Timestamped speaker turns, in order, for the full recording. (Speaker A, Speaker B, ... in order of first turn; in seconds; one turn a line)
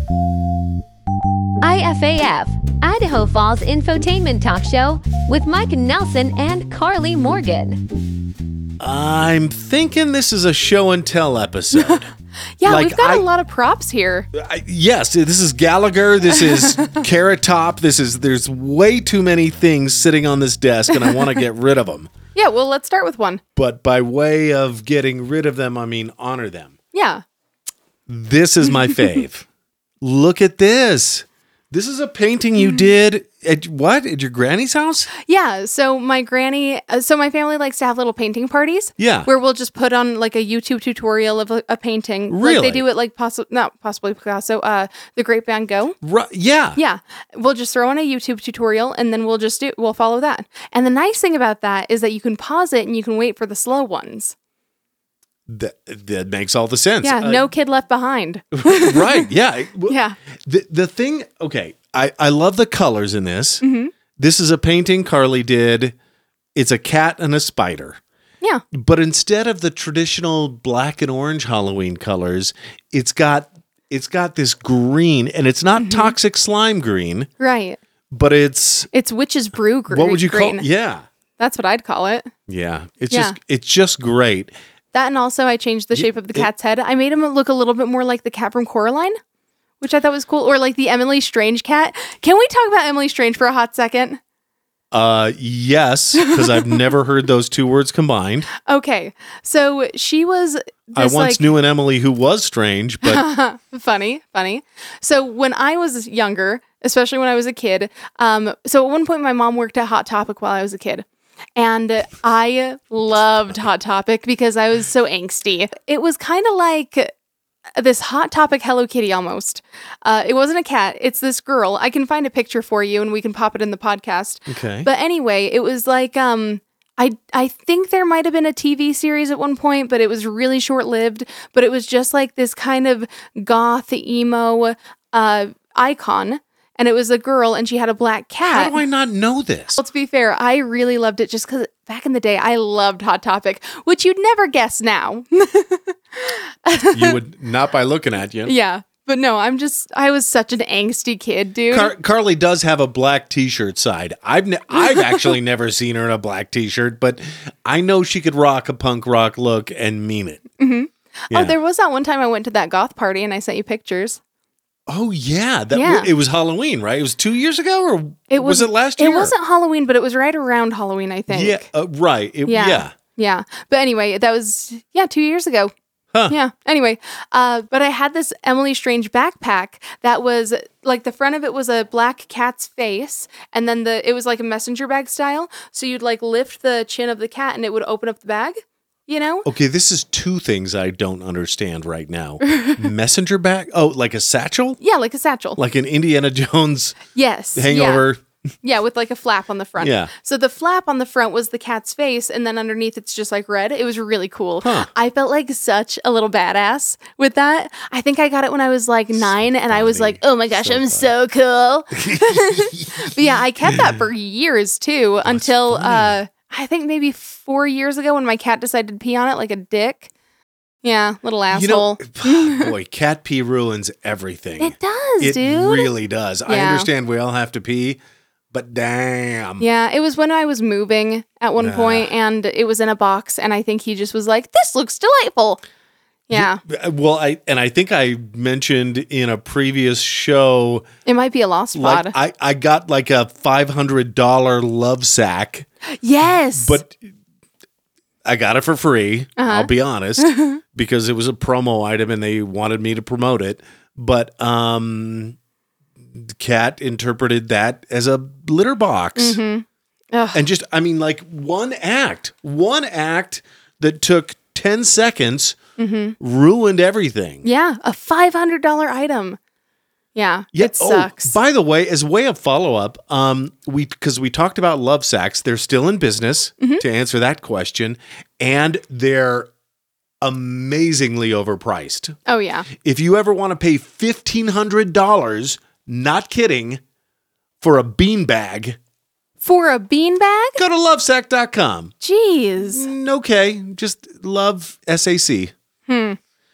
Speaker A: 1.6-7.9
Speaker B: 8.8-12.1
Speaker C: 12.6-14.3
Speaker B: 12.7-13.2
Speaker B: 14.3-22.1
Speaker C: 16.5-16.9
Speaker C: 20.9-21.3
Speaker C: 22.3-23.4
Speaker B: 23.6-26.8
Speaker C: 26.9-27.2
Speaker B: 28.1-29.5
Speaker C: 28.8-29.2
Speaker B: 30.0-35.1
Speaker C: 35.2-46.0
Speaker B: 39.0-39.3
Speaker B: 42.3-42.8
Speaker B: 46.0-46.8
Speaker C: 46.8-54.3
Speaker B: 55.5-57.5
Speaker C: 57.0-59.3
Speaker B: 58.5-63.6
Speaker C: 59.9-60.2
Speaker C: 63.6-63.9
Speaker B: 64.2-65.9
Speaker B: 66.5-68.0
Speaker B: 68.7-77.3
Speaker C: 75.8-76.1
Speaker C: 77.4-77.8
Speaker B: 78.1-78.9
Speaker C: 78.9-80.6
Speaker B: 79.9-81.0
Speaker C: 81.4-82.3
Speaker B: 82.5-84.5
Speaker C: 84.9-89.2
Speaker B: 85.9-86.5
Speaker C: 89.8-94.2
Speaker B: 94.9-98.5
Speaker C: 96.2-96.8
Speaker C: 98.6-101.5
Speaker B: 100.9-103.2
Speaker C: 103.0-111.0
Speaker C: 111.5-117.1
Speaker C: 117.8-138.8
Speaker B: 124.5-124.9
Speaker B: 138.5-139.8
Speaker C: 139.8-147.2
Speaker B: 146.9-148.5
Speaker C: 148.4-151.9
Speaker B: 151.7-160.4
Speaker C: 154.7-155.3
Speaker C: 160.6-164.2
Speaker B: 164.9-169.3
Speaker C: 165.7-166.1
Speaker C: 168.3-171.7
Speaker B: 171.3-172.9
Speaker C: 172.5-175.7
Speaker C: 176.3-189.5
Speaker B: 189.4-194.8
Speaker C: 192.5-192.8
Speaker C: 194.8-195.6
Speaker B: 195.6-197.0
Speaker C: 197.1-198.1
Speaker B: 197.6-198.2
Speaker C: 198.6-220.1
Speaker B: 199.8-200.1
Speaker B: 204.6-204.9
Speaker B: 209.2-211.1
Speaker B: 211.9-214.0
Speaker B: 215.3-216.2
Speaker C: 220.8-222.7
Speaker B: 221.5-228.0
Speaker C: 224.6-225.9
Speaker C: 226.5-226.9
Speaker B: 228.5-229.7
Speaker C: 229.6-235.6
Speaker B: 231.6-232.1
Speaker C: 236.3-236.6
Speaker B: 236.3-240.9
Speaker C: 241.1-242.1
Speaker B: 241.7-245.7
Speaker C: 246.0-246.8
Speaker B: 246.5-247.0
Speaker B: 248.2-255.3
Speaker C: 249.4-250.6
Speaker B: 256.1-259.4
Speaker C: 259.2-260.4
Speaker B: 260.3-265.6
Speaker C: 265.8-266.1
Speaker B: 266.2-267.4
Speaker C: 267.4-269.4
Speaker C: 270.1-271.4
Speaker B: 270.5-279.5
Speaker B: 280.2-282.1
Speaker C: 282.3-282.7
Speaker B: 282.8-286.8
Speaker B: 287.6-288.8
Speaker C: 289.4-290.6
Speaker B: 290.6-291.9
Speaker C: 292.0-292.9
Speaker B: 292.6-295.5
Speaker C: 295.9-296.2